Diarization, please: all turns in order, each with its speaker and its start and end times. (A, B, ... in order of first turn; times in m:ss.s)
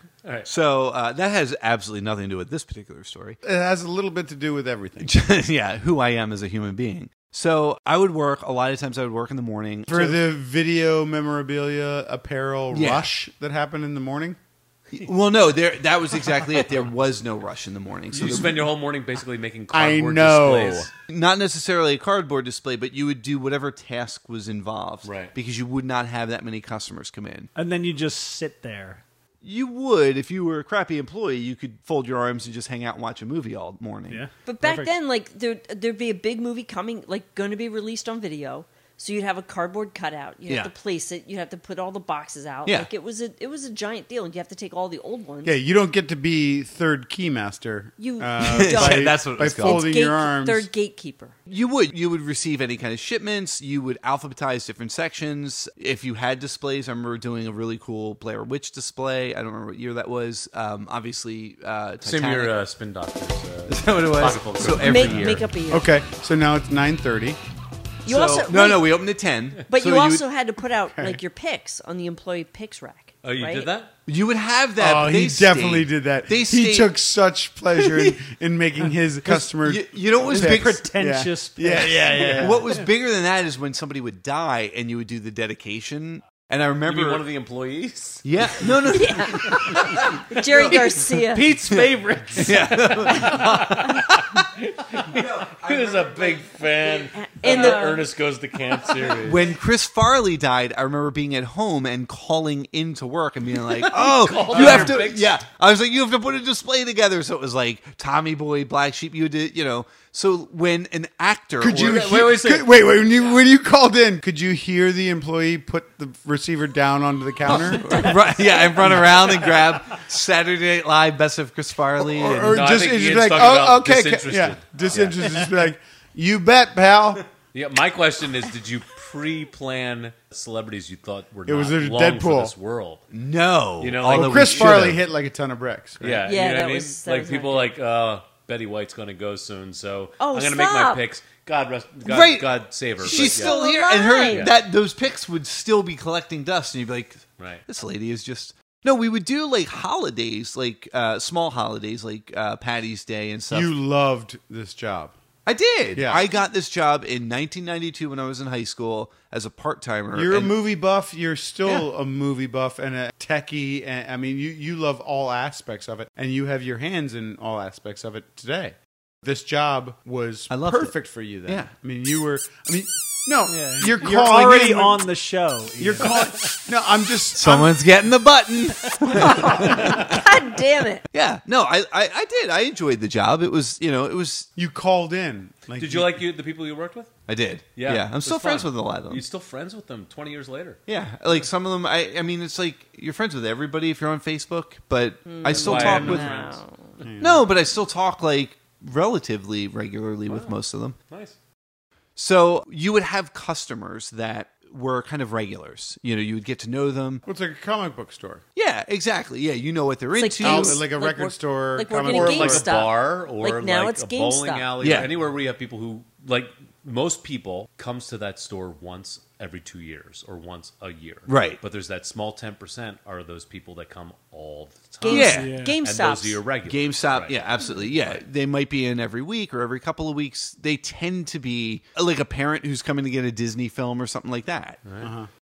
0:00.2-0:00.5 A
0:00.4-0:03.4 B
0:03.4-0:05.2 C
0:05.0-0:10.2 B
0:09.9-0:14.4 C
0:12.7-0:13.1 B
0:14.9-0:18.6 B
0:18.1-0:20.9 A
0:18.2-0:18.4 C
0:19.7-0:20.9 C
0:21.1-0:27.5 B
0:25.0-0:25.3 A
0:27.6-0:29.0 D
0:29.4-0:34.2 B
0:34.1-0:34.9 D
0:34.5-0:45.6 E
0:40.5-0:40.7 B
0:45.4-0:50.7 C
0:48.0-0:51.4 E
0:48.4-0:49.9 B
0:51.5-1:02.5 B
1:02.0-1:05.2 A
1:03.7-1:05.4 B
1:04.8-1:05.9 E
1:05.7-1:07.4 C
1:08.0-1:10.3 B
1:08.1-1:09.0 E
1:09.7-1:13.7 E
1:11.0-1:11.2 C
1:13.2-1:13.9 A
1:14.1-1:16.9 B
1:14.8-1:22.7 C
1:17.7-1:18.2 B
1:19.3-1:20.9 B
1:20.3-1:22.7 D
1:22.3-1:27.3 B
1:26.9-1:28.7 A
1:28.2-1:31.0 B
1:28.9-1:29.8 E
1:30.3-1:31.5 E
1:30.6-1:33.2 D
1:31.6-1:34.4 B
1:33.0-1:39.5 A
1:35.0-1:37.8 B
1:37.2-1:38.1 E
1:39.2-1:52.3 B
1:43.6-1:45.4 A
1:44.5-1:45.0 C
1:51.6-1:58.1 C
1:51.7-1:52.9 A
1:57.5-2:02.8 B
1:59.0-1:59.3 C
2:02.0-2:07.2 C
2:02.5-2:05.4 A
2:07.5-2:13.0 A
2:11.5-2:12.5 C
2:13.1-2:15.1 B
2:13.8-2:14.9 A
2:14.1-2:16.2 C
2:16.0-2:23.6 A
2:16.3-2:17.7 E
2:20.2-2:21.0 E
2:22.0-2:33.7 B
2:23.0-2:24.5 E
2:24.3-2:24.5 A
2:27.4-2:27.6 A
2:33.5-2:35.2 C
2:35.5-2:40.5 B
2:36.0-2:36.2 C
2:40.1-2:55.0 C
2:50.5-2:50.9 B
2:51.5-2:51.7 B
2:53.5-2:56.4 D
2:55.8-2:57.8 C
2:57.4-3:00.2 B
2:59.2-3:01.0 E
3:01.1-3:04.5 B
3:04.6-3:06.2 C
3:05.8-3:07.1 A
3:07.3-3:09.2 B
3:07.8-3:10.8 A
3:10.9-3:16.4 B
3:15.3-3:17.0 E
3:15.5-3:16.5 A
3:15.7-3:16.3 C
3:17.0-3:17.4 C
3:17.2-3:21.0 B
3:20.3-3:20.6 A
3:21.1-3:21.4 A
3:22.2-3:27.2 B
3:27.3-3:28.4 C
3:28.6-3:30.8 B
3:30.2-3:34.7 E
3:30.4-3:32.7 C
3:32.1-3:48.2 A
3:34.8-3:35.1 B
3:41.3-3:41.6 B
3:45.0-3:46.4 E
3:45.1-3:45.5 B
3:45.3-3:45.8 D
3:46.7-3:54.8 B
3:54.8-3:55.1 A
3:55.0-3:55.3 C